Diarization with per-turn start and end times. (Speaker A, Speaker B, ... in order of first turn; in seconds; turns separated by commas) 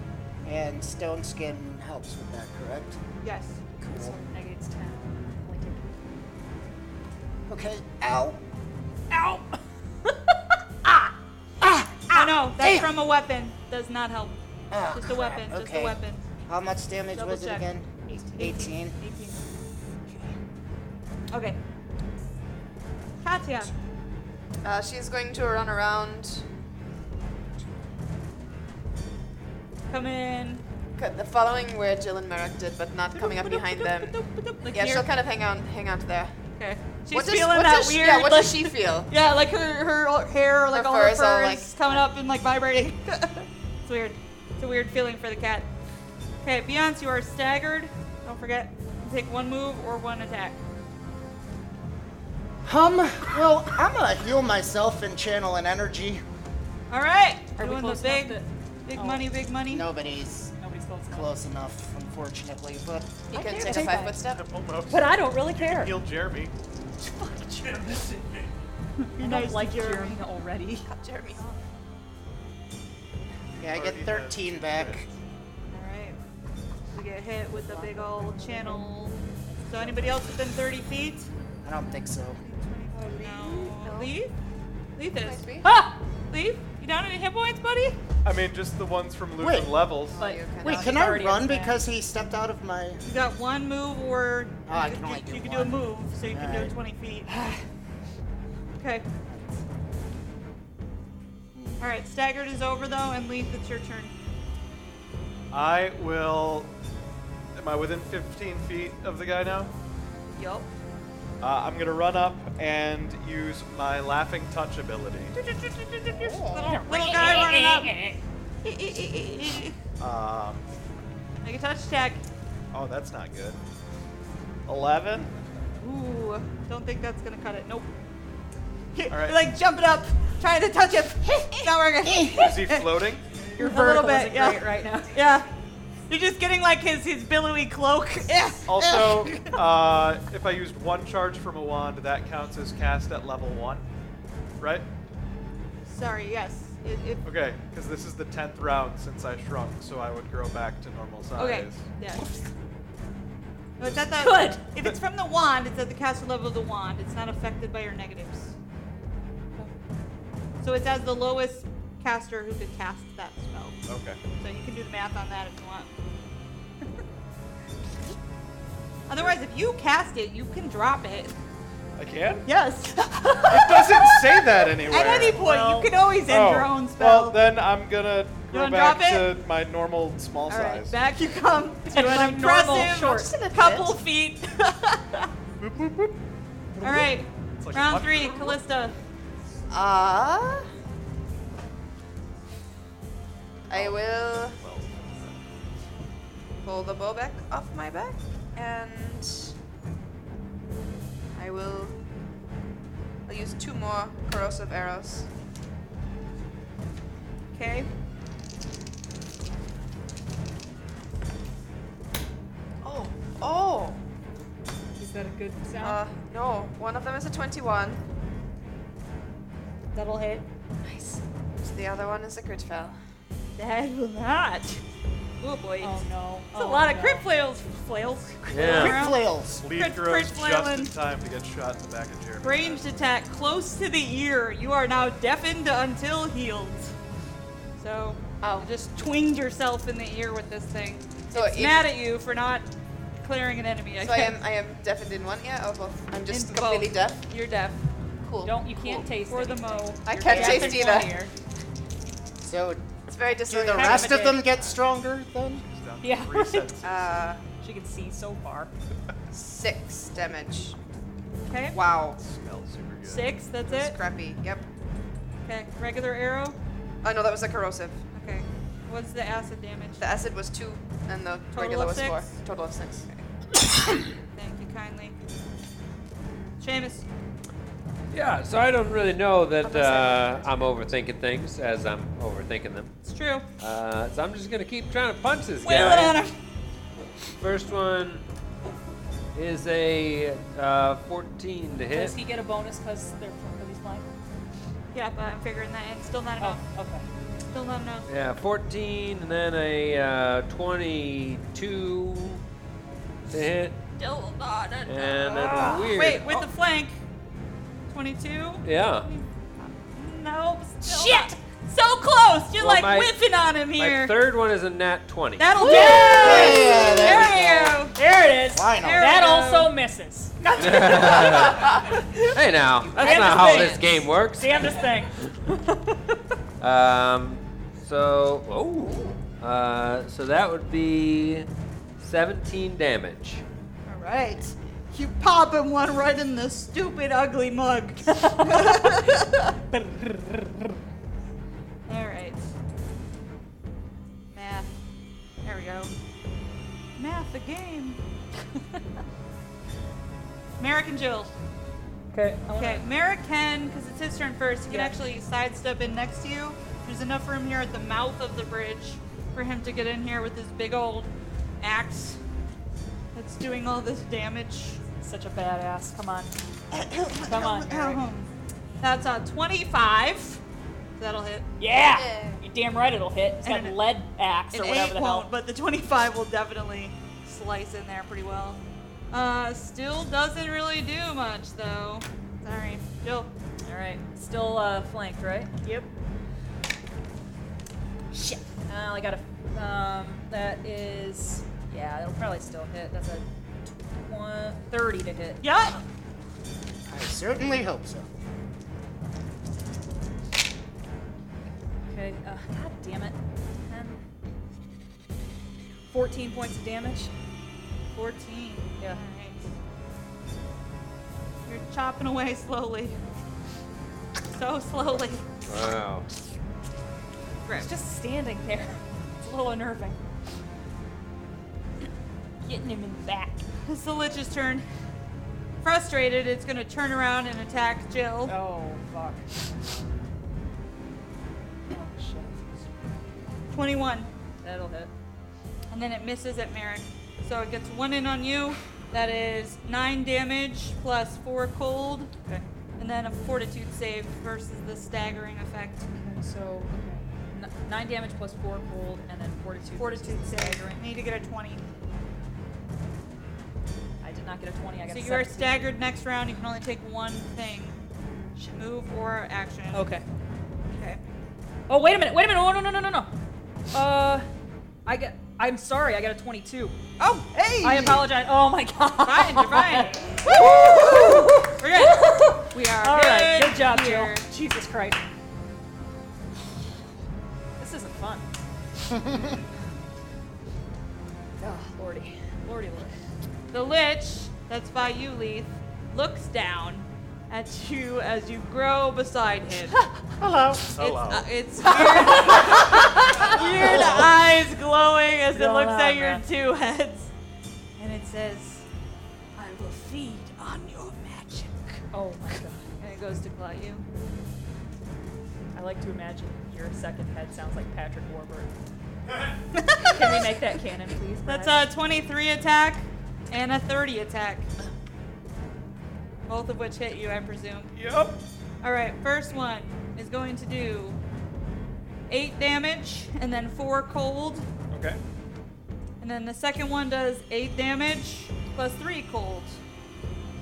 Speaker A: 0.4-3.0, Speaker B: 3.2-3.6, Speaker A: 3.8-4.2, Speaker C: 3.8-6.0, Speaker A: 7.5-8.4, Speaker C: 9.1-10.1, Speaker A: 11.6-12.9, Speaker B: 12.1-14.4, Speaker A: 14.7-19.0, Speaker B: 14.9-16.3, Speaker B: 17.1-19.4, Speaker A: 20.1-20.4, Speaker B: 21.3-21.6, Speaker B: 23.2-23.7, Speaker D: 24.6-26.4, Speaker B: 29.9-30.6, Speaker D: 31.0-36.4, Speaker B: 33.1-35.1, Speaker C: 34.6-35.0, Speaker B: 36.6-45.7, Speaker D: 37.1-39.1, Speaker D: 40.7-42.1, Speaker B: 46.4-50.6, Speaker A: 52.6-56.2, Speaker B: 56.9-59.9, Speaker C: 57.6-59.3, Speaker A: 59.7-60.5, Speaker C: 60.6-61.4, Speaker A: 61.1-64.1, Speaker C: 63.3-64.2, Speaker D: 63.3-64.5, Speaker E: 64.2-66.5, Speaker C: 64.9-66.0, Speaker C: 67.0-68.5, Speaker B: 69.0-70.3, Speaker C: 69.2-70.9, Speaker D: 70.9-71.5, Speaker B: 71.2-71.6, Speaker E: 73.5-75.1, Speaker A: 73.6-75.1, Speaker B: 75.7-76.2, Speaker B: 76.9-81.3, Speaker C: 77.5-78.9, Speaker C: 79.5-80.2, Speaker A: 81.6-82.4, Speaker B: 81.8-84.3, Speaker C: 83.0-83.8, Speaker D: 83.2-84.1, Speaker B: 85.0-85.5, Speaker D: 85.2-85.7, Speaker C: 85.6-86.0, Speaker B: 86.3-88.0, Speaker E: 88.2-90.3, Speaker A: 89.4-89.7, Speaker D: 90.1-91.1, Speaker C: 90.2-91.8, Speaker A: 90.6-93.0, Speaker B: 93.0-97.3, Speaker A: 94.7-96.8, Speaker B: 98.8-99.1, Speaker A: 99.3-99.6, Speaker A: 101.5-101.8, Speaker B: 101.8-104.1, Speaker E: 105.5-106.7, Speaker E: 107.6-109.7, Speaker B: 110.3-110.7, Speaker E: 111.4-115.3, Speaker B: 115.3-118.0, Speaker A: 116.1-116.7, Speaker C: 116.6-118.2, Speaker B: 118.6-119.8, Speaker E: 120.0-120.6, Speaker B: 121.4-122.2, Speaker E: 122.7-123.6, Speaker E: 124.7-125.3, Speaker B: 125.8-127.9, Speaker B: 128.9-133.0, Speaker E: 129.1-129.4, Speaker A: 132.0-132.4, Speaker E: 132.3-133.3, Speaker C: 133.6-135.1, Speaker B: 133.6-135.5, Speaker B: 136.1-139.6, Speaker E: 138.7-143.9, Speaker E: 144.6-144.9, Speaker B: 145.9-147.2, Speaker E: 147.2-151.9, Speaker B: 151.4-152.5, Speaker B: 153.8-158.6, Speaker C: 154.2-154.6, Speaker B: 160.6-163.8, Speaker E: 163.9-164.2, Speaker B: 164.4-165.9, Speaker B: 169.1-171.4, Speaker E: 172.0-172.4, Speaker B: 172.5-177.4, Speaker E: 173.5-181.0, Speaker B: 178.5-179.3, Speaker B: 180.5-185.3, Speaker C: 181.9-183.9, Speaker E: 185.6-186.2, Speaker B: 186.8-189.0, Speaker E: 187.6-188.6, Speaker D: 189.7-190.7, Speaker E: 193.7-195.4, Speaker D: 193.7-194.6, Speaker D: 196.6-199.5, Speaker D: 201.3-202.0, Speaker D: 203.3-205.3, Speaker B: 207.6-207.9, Speaker D: 212.8-214.0, Speaker C: 215.0-216.0, Speaker D: 215.8-218.0, Speaker B: 219.9-220.5, Speaker D: 220.9-223.0, Speaker B: 223.6-224.8, Speaker B: 225.4-230.9, Speaker C: 225.8-227.3, Speaker F: 228.5-229.0, Speaker A: 228.6-229.7, Speaker E: 229.6-232.9, Speaker B: 232.4-236.9, Speaker B: 237.8-242.7, Speaker D: 238.4-238.7, Speaker D: 241.3-241.9, Speaker B: 243.2-244.4, Speaker D: 244.0-247.2, Speaker B: 246.2-247.9, Speaker D: 248.2-249.1, Speaker C: 248.4-251.3, Speaker B: 249.2-251.0, Speaker D: 250.0-251.2, Speaker A: 252.4-252.8, Speaker D: 253.1-254.3, Speaker A: 253.5-255.6, Speaker B: 253.9-254.4, Speaker E: 254.5-254.8, Speaker E: 255.5-257.2, Speaker C: 256.0-256.7, Speaker D: 256.8-257.4, Speaker C: 257.6-258.7, Speaker D: 259.3-260.8, Speaker B: 261.5-261.8, Speaker D: 261.7-262.2, Speaker E: 262.2-263.4, Speaker B: 263.1-264.0, Speaker D: 263.6-264.7, Speaker B: 265.4-266.6, Speaker D: 267.0-268.0, Speaker B: 268.1-270.1, Speaker D: 270.0-273.3, Speaker B: 271.5-272.4, Speaker B: 274.4-275.2, Speaker B: 276.6-277.1, Speaker F: 278.1-283.0, Speaker B: 279.6-280.3, Speaker B: 283.0-283.5, Speaker F: 283.6-286.2, Speaker B: 285.6-286.4, Speaker F: 287.4-288.2, Speaker F: 289.4-292.1, Speaker C: 291.9-294.1, Speaker B: 294.9-296.6, Speaker C: 296.4-297.1, Speaker B: 297.5-298.1, Speaker F: 298.1-302.4, Speaker F: 303.3-303.8, Speaker B: 304.0-307.0, Speaker F: 304.9-306.5, Speaker B: 307.9-314.2, Speaker F: 308.6-309.1, Speaker C: 310.8-311.3, Speaker F: 312.6-313.2, Speaker F: 313.8-315.9, Speaker B: 315.4-317.9, Speaker C: 315.6-317.0, Speaker A: 316.1-317.8, Speaker C: 317.9-321.7, Speaker A: 318.5-319.1, Speaker B: 318.7-319.7, Speaker F: 320.6-321.8, Speaker F: 322.3-324.6, Speaker D: 322.8-324.1, Speaker C: 323.0-323.8, Speaker C: 324.4-326.0, Speaker F: 326.6-333.4, Speaker B: 333.9-339.5, Speaker C: 338.2-338.9, Speaker C: 339.7-340.4, Speaker B: 341.9-342.5, Speaker B: 344.3-344.7, Speaker B: 345.4-345.9, Speaker B: 347.0-348.0, Speaker B: 350.6-351.3, Speaker C: 352.1-352.9, Speaker B: 352.6-362.2, Speaker C: 354.7-355.0, Speaker B: 363.1-364.8, Speaker C: 365.0-366.3, Speaker B: 366.8-368.3, Speaker C: 367.1-368.0, Speaker B: 368.8-370.4, Speaker B: 371.0-371.5, Speaker C: 371.6-375.3, Speaker D: 371.8-372.4, Speaker B: 373.4-373.8, Speaker B: 374.5-383.3, Speaker C: 383.6-385.6, Speaker B: 385.6-385.9, Speaker C: 388.1-395.5, Speaker B: 395.4-395.8, Speaker A: 396.9-398.1, Speaker C: 401.9-404.0, Speaker C: 405.9-407.1, Speaker B: 407.9-409.5, Speaker B: 411.5-413.0, Speaker B: 414.3-415.2, Speaker F: 415.5-416.1, Speaker B: 417.4-417.7, Speaker C: 417.5-420.0, Speaker C: 422.4-423.4, Speaker B: 423.7-424.7, Speaker B: 425.6-428.3, Speaker C: 428.2-429.3, Speaker C: 431.7-432.7, Speaker B: 433.5-434.1, Speaker C: 434.4-434.9, Speaker B: 435.7-442.1, Speaker B: 442.8-445.9, Speaker C: 445.9-450.9, Speaker B: 449.8-451.6, Speaker C: 454.0-455.7, Speaker B: 454.9-457.8, Speaker B: 458.4-459.9, Speaker C: 459.7-460.1, Speaker B: 460.7-461.0, Speaker C: 461.7-463.1, Speaker C: 463.7-464.3, Speaker C: 464.9-466.8, Speaker B: 467.0-468.1, Speaker C: 467.6-475.1, Speaker B: 469.0-474.2, Speaker C: 477.6-478.2, Speaker C: 481.4-483.0, Speaker B: 483.5-489.9, Speaker E: 490.2-491.3, Speaker B: 490.8-497.1, Speaker C: 491.6-494.1, Speaker C: 495.3-496.2, Speaker B: 497.8-498.6, Speaker B: 499.4-501.8, Speaker C: 501.9-502.7, Speaker B: 502.8-503.9, Speaker C: 505.5-508.5, Speaker B: 509.5-510.4, Speaker C: 509.8-511.7, Speaker B: 511.3-514.5, Speaker B: 516.3-517.7, Speaker E: 517.7-518.2, Speaker B: 518.6-521.0, Speaker B: 522.1-524.5, Speaker E: 524.7-525.0, Speaker B: 526.0-529.6